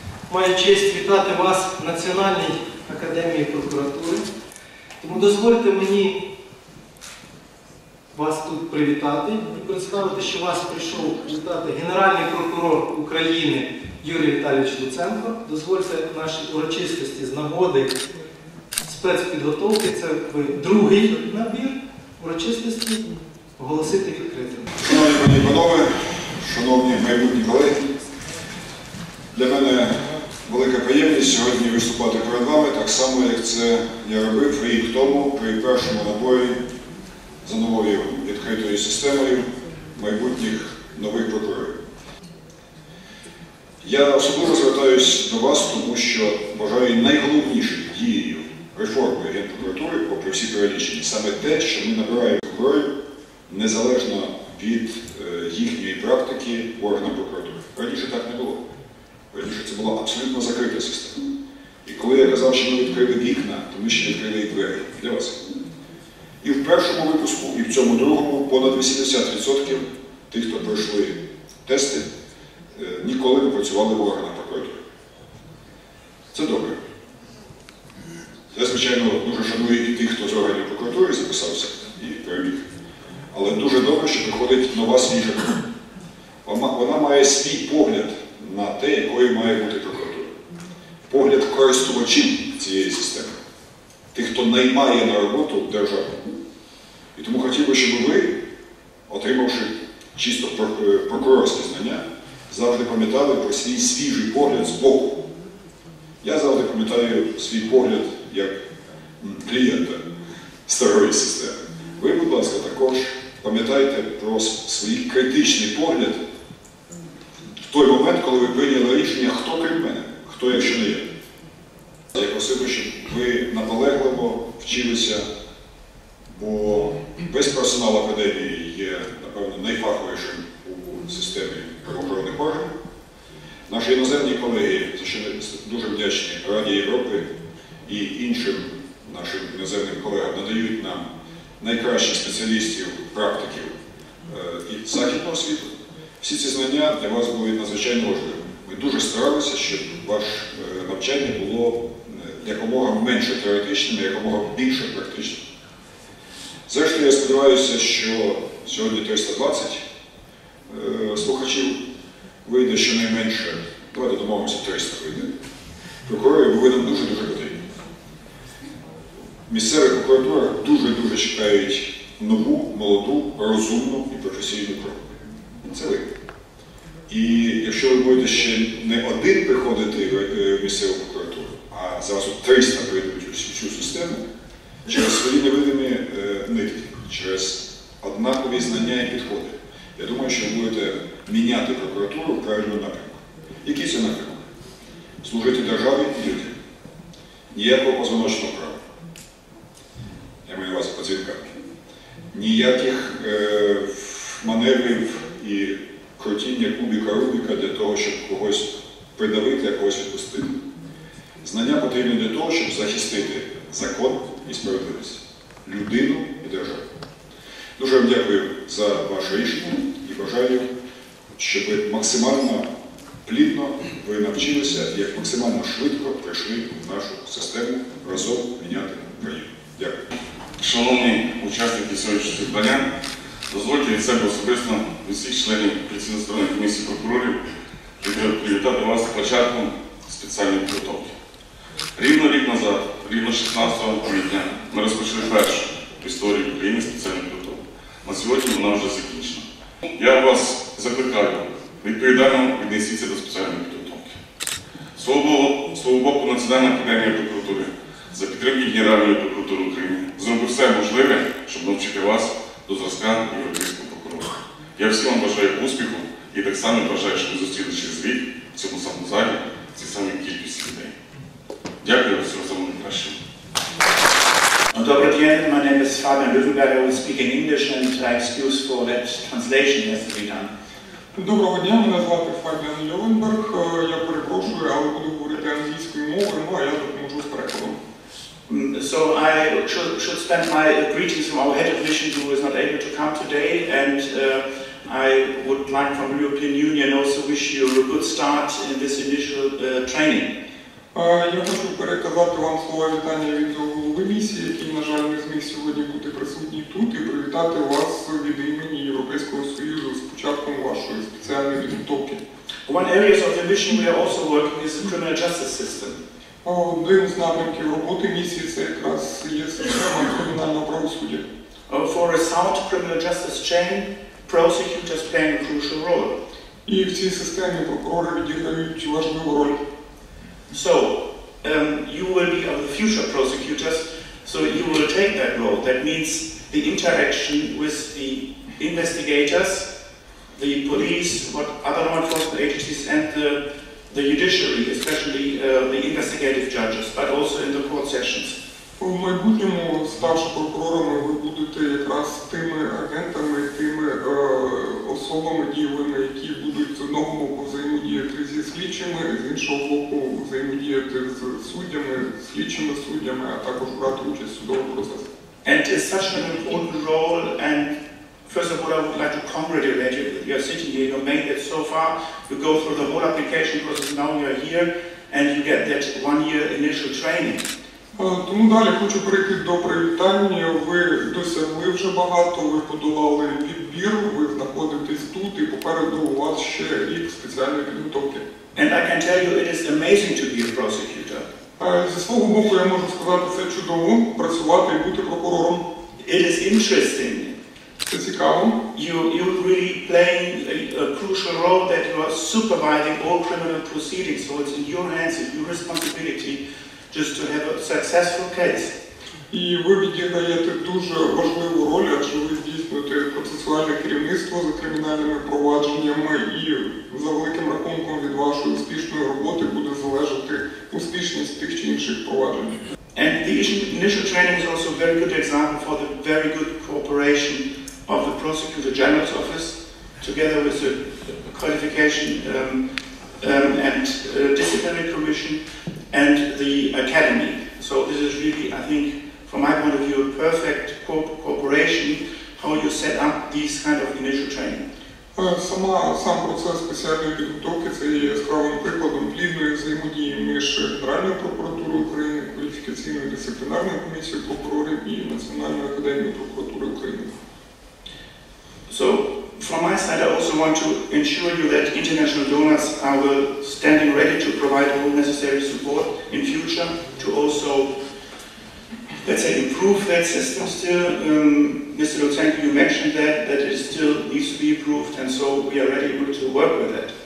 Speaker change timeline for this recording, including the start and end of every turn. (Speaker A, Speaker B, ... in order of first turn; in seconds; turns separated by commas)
Speaker A: 0.3-4.2, Speaker A: 5.0-6.2, Speaker A: 8.1-18.0, Speaker A: 18.8-24.7, Speaker B: 24.8-27.8, Speaker B: 29.3-36.6, Speaker B: 37.4-41.8, Speaker B: 43.8-52.9, Speaker B: 53.5-58.6, Speaker B: 59.3-61.2, Speaker B: 61.8-65.4, Speaker B: 66.4-72.0, Speaker B: 72.7-74.8, Speaker B: 76.3-76.8, Speaker B: 78.5-82.7, Speaker B: 83.3-85.6, Speaker B: 86.4-90.3, Speaker B: 91.1-93.3, Speaker B: 94.1-96.2, Speaker B: 97.1-98.4, Speaker B: 99.1-105.2, Speaker B: 106.2-108.5, Speaker B: 109.2-110.0, Speaker B: 110.7-116.2, Speaker B: 117.7-121.1, Speaker B: 122.1-125.2, Speaker B: 126.3-132.7, Speaker B: 133.7-137.3, Speaker B: 137.8-141.1, Speaker B: 141.6-143.7, Speaker B: 144.3-155.4, Speaker B: 156.7-159.8, Speaker B: 160.7-161.8, Speaker B: 162.4-165.3, Speaker B: 166.0-167.6, Speaker B: 169.5-175.0, Speaker B: 175.6-176.1, Speaker B: 177.1-184.2, Speaker B: 184.9-194.4, Speaker B: 195.2-196.5, Speaker B: 197.5-198.8, Speaker B: 200.4-201.5, Speaker B: 202.3-210.6, Speaker B: 211.4-216.8, Speaker B: 217.8-220.7, Speaker B: 221.4-222.7, Speaker B: 223.2-230.1, Speaker C: 230.6-232.9, Speaker C: 233.5-237.4, Speaker C: 238.0-241.1, Speaker C: 241.9-249.4, Speaker C: 249.9-254.2, Speaker C: 254.9-270.9, Speaker C: 271.8-273.1, Speaker D: 274.7-280.5, Speaker E: 281.1-287.8, Speaker D: 288.5-300.3, Speaker E: 300.9-312.2, Speaker D: 312.6-316.0, Speaker E: 316.4-321.2, Speaker D: 321.7-326.1, Speaker E: 326.6-329.6, Speaker D: 330.5-339.7, Speaker D: 340.3-348.4, Speaker E: 348.8-365.1, Speaker D: 365.4-367.7, Speaker D: 368.2-377.4, Speaker E: 377.9-388.2, Speaker D: 388.5-391.3, Speaker E: 391.6-395.6, Speaker D: 396.0-397.3, Speaker E: 397.9-398.6, Speaker D: 398.7-408.8, Speaker E: 409.3-422.6, Speaker D: 422.9-432.6, Speaker D: 433.2-444.6, Speaker E: 445.1-457.1, Speaker D: 458.7-467.7, Speaker D: 469.0-476.9